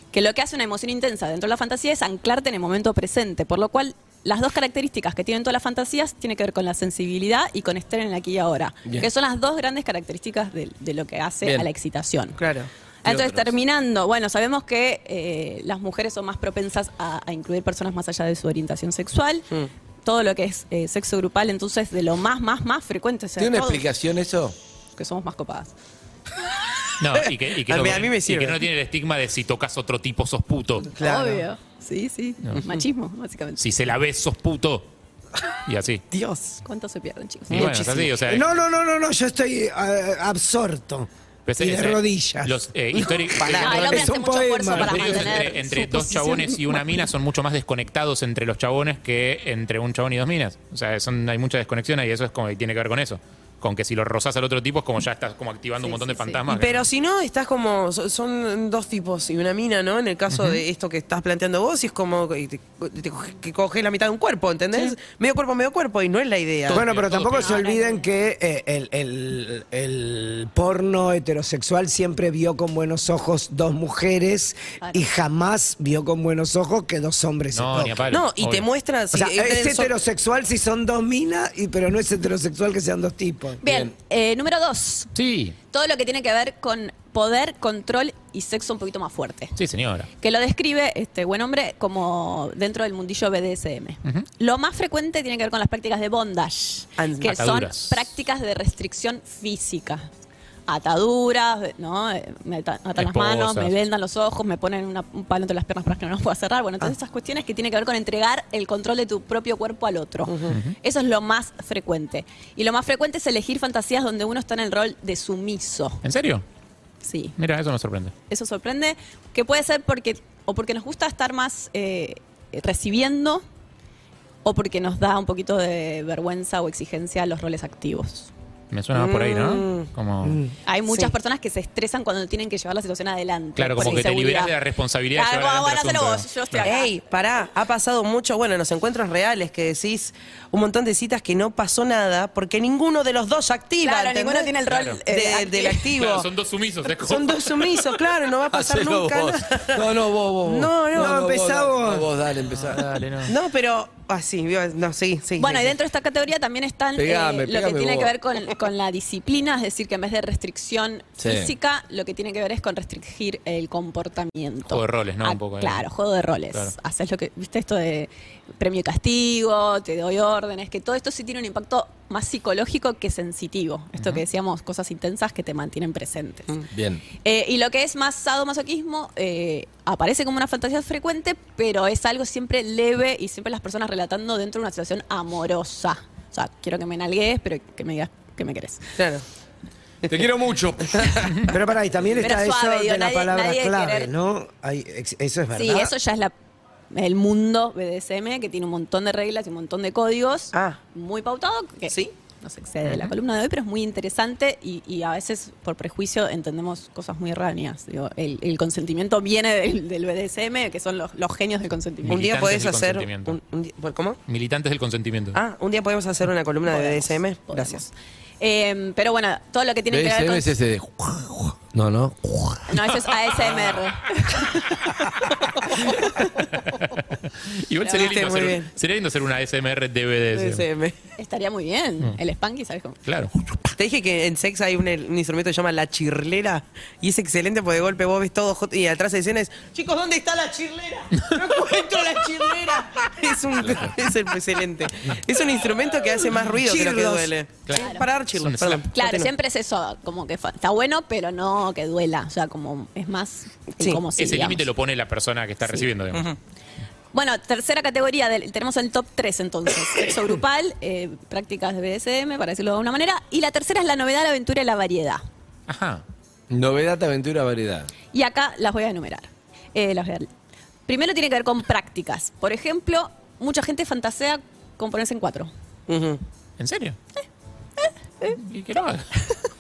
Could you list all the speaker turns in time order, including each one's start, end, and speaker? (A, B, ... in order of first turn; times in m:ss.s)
0:00.1-0:12.4 A
0:11.4-0:11.7 B
0:12.4-0:12.7 C
0:13.0-0:19.5 A
0:13.0-0:13.5 B
0:20.0-0:23.9 A
0:23.4-0:24.6 B
0:25.0-0:25.7 A
0:27.0-0:30.9 D
0:27.1-0:28.6 C
0:30.9-0:31.4 C
0:31.0-0:33.6 A
0:33.6-0:34.9 D
0:35.6-0:36.0 D
0:36.1-0:36.6 C
0:36.6-0:37.8 A
0:37.5-0:38.5 D
0:37.5-0:38.2 C
0:38.3-0:43.1 E
0:41.5-0:56.9 D
0:43.0-0:43.8 C
0:43.6-0:46.9 A
0:43.7-0:45.4 E
0:55.8-0:56.4 A
0:56.5-1:06.8 C
1:00.3-1:00.6 D
1:06.7-1:07.6 D
1:06.7-1:18.1 E
1:07.3-1:08.1 A
1:17.5-1:18.7 D
1:18.1-1:19.9 C
1:19.1-1:23.6 E
1:23.6-1:25.1 A
1:23.6-1:23.9 B
1:25.2-1:25.6 D
1:25.7-1:29.6 A
1:29.6-1:30.1 D
1:30.2-1:40.1 A
1:37.0-1:37.4 C
1:37.3-1:38.1 D
1:40.7-1:56.0 A
1:43.0-1:43.7 D
1:50.3-1:50.6 C
1:50.5-1:50.8 D
1:56.0-1:56.4 D
1:57.0-1:57.4 A
1:57.4-1:58.1 D
1:58.3-2:03.4 A
2:04.4-2:08.3 A
2:08.7-2:10.4 D
2:08.9-2:09.9 C
2:10.7-2:14.6 A
2:10.9-2:11.1 C
2:13.6-2:16.7 D
2:15.1-2:16.9 A
2:16.6-2:24.6 C
2:23.8-2:25.9 A
2:24.7-2:25.0 D
2:25.1-2:26.3 C
2:25.9-2:27.8 D
2:27.0-2:29.9 C
2:28.5-2:33.0 B
2:30.4-2:31.2 C
2:30.9-2:32.1 E
2:32.5-2:33.4 D
2:33.3-2:35.8 C
2:35.4-2:56.6 A
2:37.0-2:38.1 B
2:41.2-2:41.5 B
2:44.7-2:45.9 D
2:56.7-2:57.0 B
2:57.2-3:08.9 A
3:09.0-3:09.2 C
3:10.1-3:11.5 B
3:11.5-3:15.9 E
3:12.2-3:14.1 A
3:15.5-3:16.3 A
3:16.9-3:32.3 A
3:20.5-3:20.8 C
3:22.8-3:23.2 D
3:32.0-3:33.4 D
3:32.1-3:34.2 C
3:34.3-3:35.4 D
3:35.3-3:37.8 C
3:36.7-3:40.6 A
3:39.9-3:42.7 B
3:42.7-3:44.8 A
3:43.1-3:43.9 D
3:45.6-3:45.9 C
3:46.6-3:50.6 D
3:47.8-3:48.2 A
3:47.9-3:48.7 C
3:50.3-3:51.0 C
3:51.2-3:53.0 A
3:53.1-3:53.7 D
3:53.8-4:09.3 C
4:03.6-4:04.0 D
4:06.6-4:07.3 E
4:07.7-4:08.8 D
4:07.7-4:08.1 A
4:08.9-4:14.7 A
4:14.2-4:16.3 D
4:16.1-4:16.4 C
4:17.1-4:25.2 A
4:25.7-4:26.0 D
4:26.5-4:27.9 B
4:28.1-4:30.3 A
4:30.9-4:35.5 A
4:35.9-4:36.2 C
4:36.6-4:37.0 D
4:37.8-4:38.4 A
4:38.4-4:39.1 D